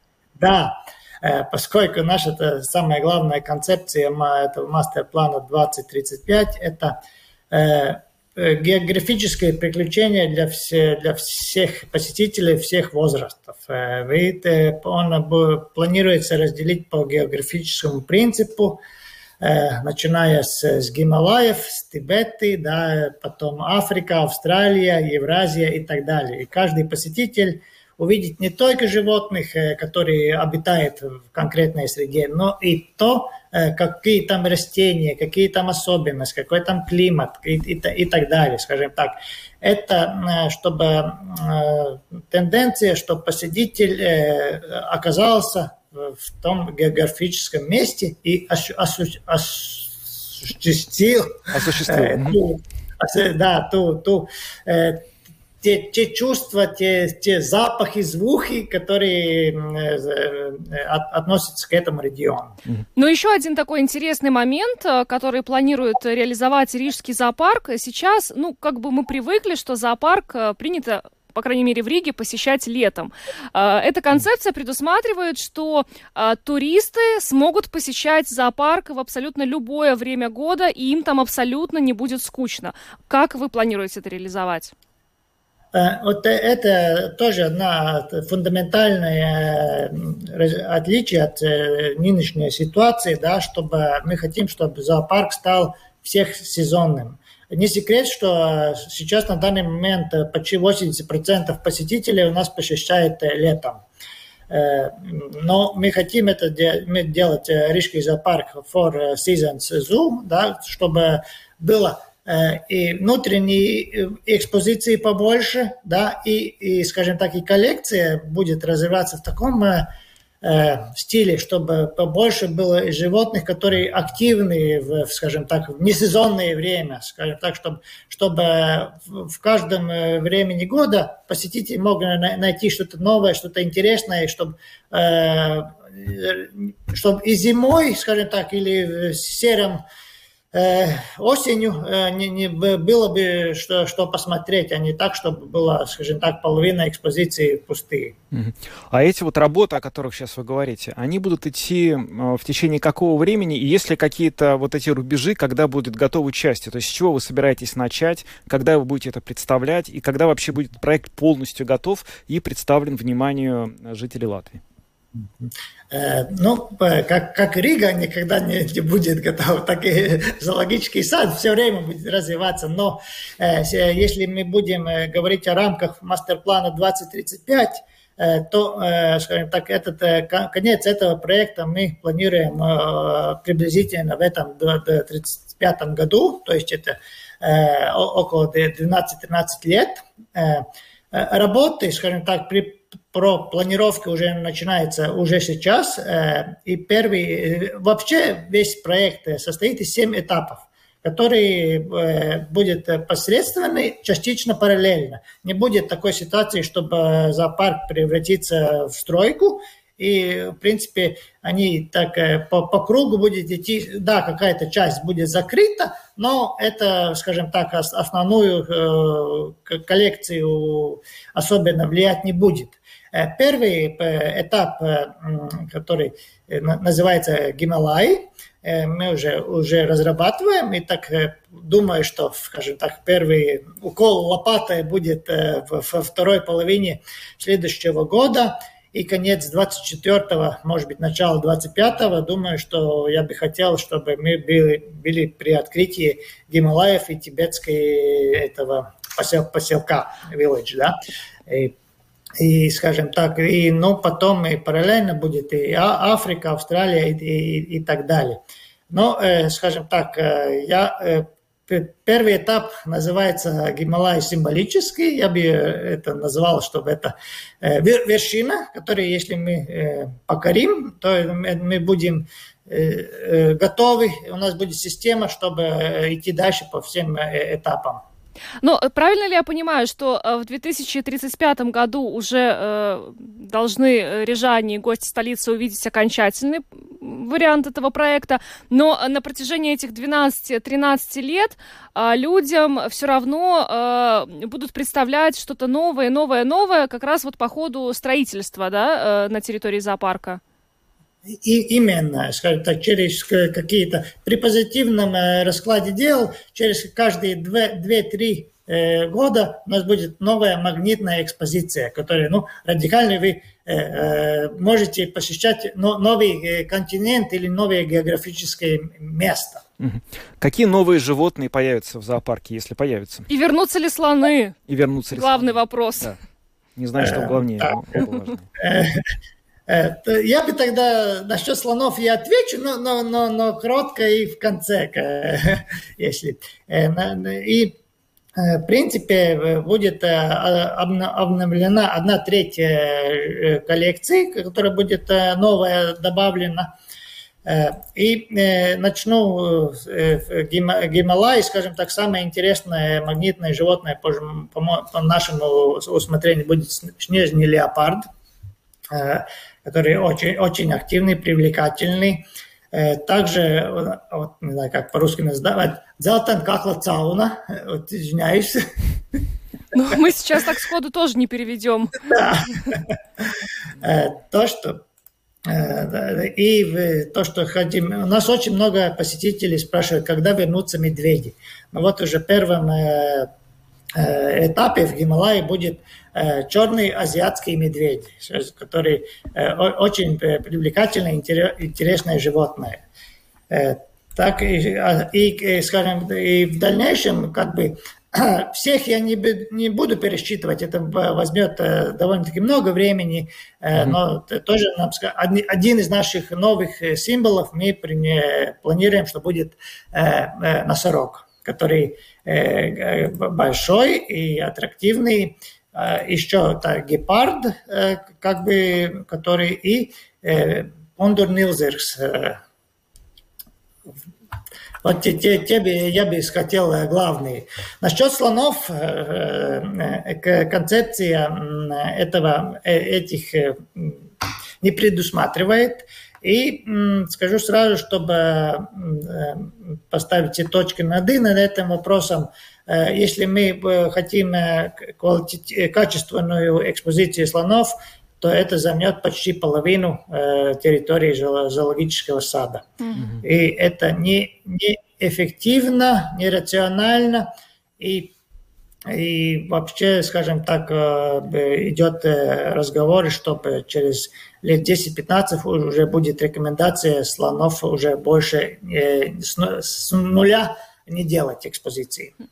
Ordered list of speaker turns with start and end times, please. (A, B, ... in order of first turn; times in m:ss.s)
0:00.4-0:07.0 A
0:07.5-0:18.8 A
0:19.4-0:55.1 A
0:51.5-0:52.4 B
0:55.6-1:02.6 A
1:03.0-1:24.7 C
1:25.7-1:43.8 A
1:44.5-1:59.9 A
2:00.4-2:19.8 A
2:20.5-2:28.2 A
2:28.3-2:44.6 B
2:45.2-4:11.0 A
4:11.5-4:11.8 A
4:12.4-4:38.0 A
4:38.6-5:00.4 C
5:01.3-5:19.6 A
5:19.8-5:23.3 B
5:23.3-5:24.6 C
5:24.7-5:26.2 B
5:25.1-5:26.1 C
5:26.8-5:28.5 B
5:27.0-5:27.8 A
5:28.6-5:29.0 A
5:29.7-5:37.8 A
5:38.4-5:46.7 A
5:47.4-5:58.0 A
5:58.9-6:08.6 A
6:09.7-6:12.0 C
6:12.1-6:12.8 A
6:13.8-6:14.8 A
6:15.5-6:23.3 A
6:24.0-6:32.8 A
6:33.5-7:02.4 A
7:04.8-7:14.0 A
7:14.6-7:32.7 A
7:32.8-7:33.1 C
7:33.0-7:33.2 B
7:33.2-7:37.3 A
7:37.8-7:38.1 A
7:38.9-7:52.1 A